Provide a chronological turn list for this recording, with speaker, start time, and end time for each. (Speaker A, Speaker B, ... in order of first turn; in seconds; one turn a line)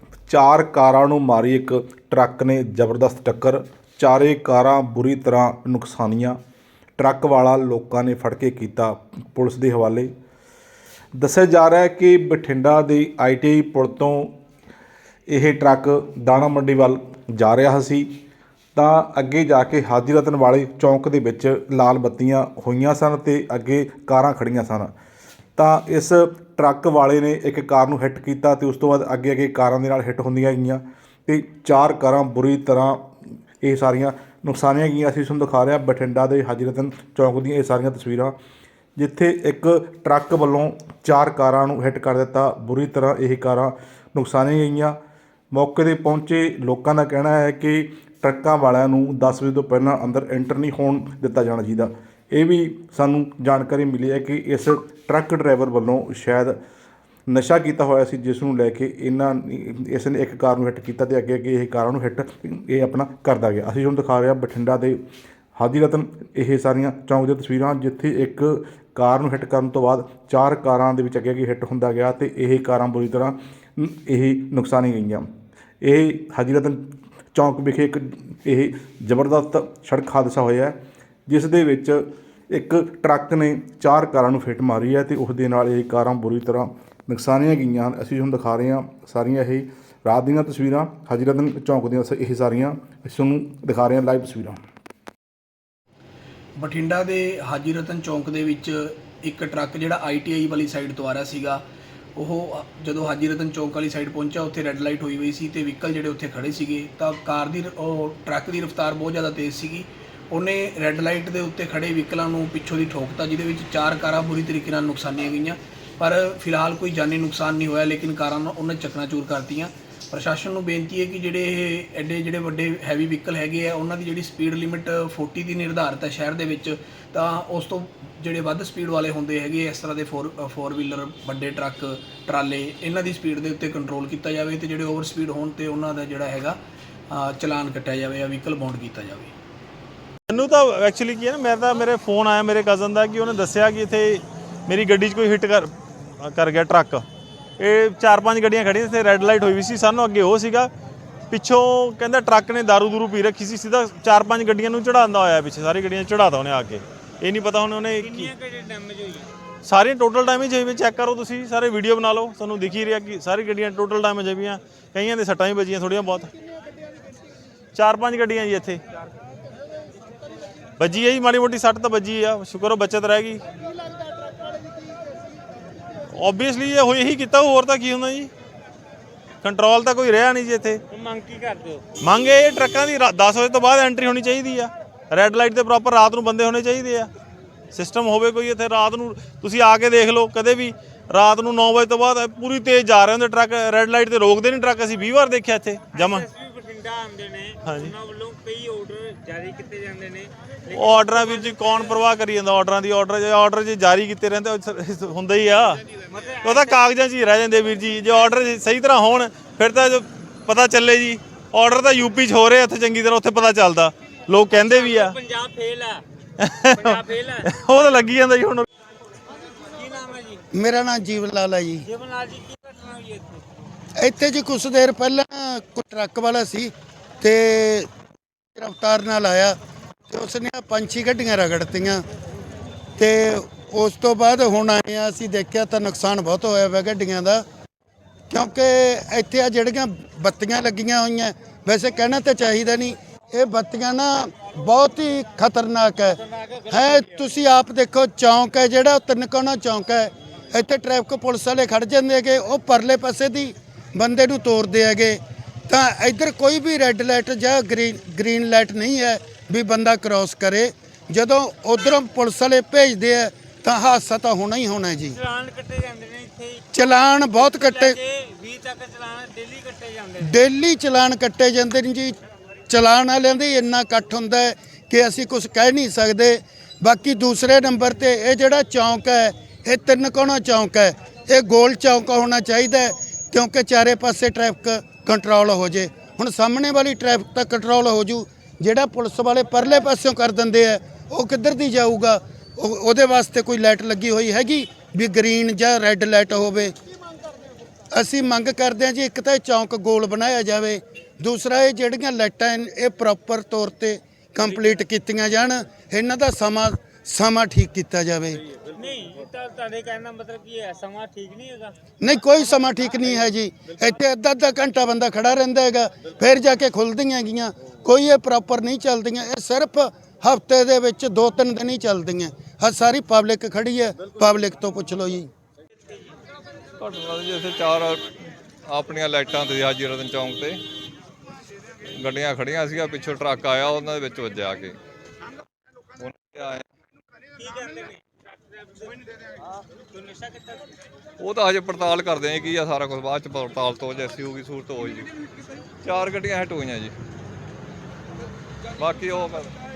Speaker A: 0.3-6.4
Speaker A: 7.0-10.1
Speaker A: 11.2-14.3
Speaker A: 15.3-18.1
Speaker A: 18.8-24.9
Speaker A: 25.6-33.1
Speaker A: 33.6-38.4
Speaker A: 39.0-45.0
Speaker A: 45.5-56.6
Speaker A: 57.3-65.0
Speaker A: 65.6-75.3
Speaker A: 75.8-94.6
Speaker B: 96.6-101.6
Speaker B: 102.2-136.6
Speaker B: 137.1-139.3
Speaker C: 140.3-147.1
Speaker C: 147.6-150.7
Speaker C: 151.3-158.3
Speaker D: 158.0-159.3
Speaker C: 159.7-166.3
Speaker C: 167.8-168.8
Speaker C: 170.8-173.4
Speaker C: 176.1-178.3
Speaker C: 179.4-180.8
Speaker D: 180.9-181.8
Speaker C: 182.0-187.1
Speaker C: 187.7-196.2
Speaker D: 195.9-202.0
Speaker C: 197.7-197.9
Speaker C: 200.7-205.8
Speaker D: 206.1-206.8
Speaker C: 206.4-215.2
Speaker D: 214.5-216.0
Speaker C: 216.4-218.7
Speaker D: 216.7-217.5
Speaker D: 219.7-220.4
Speaker E: 220.5-221.9
Speaker D: 221.9-223.4
Speaker E: 224.0-227.9
Speaker E: 228.6-229.6
Speaker E: 230.1-232.0
Speaker E: 233.0-237.4
Speaker E: 238.3-265.2
Speaker D: 246.1-247.3
Speaker D: 265.1-266.6
Speaker E: 266.7-268.0
Speaker D: 267.4-270.3
Speaker E: 270.2-272.1
Speaker E: 272.7-296.7
Speaker E: 297.9-308.4
Speaker D: 308.8-311.8
Speaker E: 312.0-325.3
Speaker F: 326.8-328.0
Speaker F: 328.7-330.6
Speaker F: 332.0-334.8
Speaker F: 336.0-336.6
Speaker D: 337.4-339.1
Speaker D: 339.9-340.7
Speaker F: 341.2-345.1
Speaker F: 345.8-346.9
Speaker F: 348.8-349.5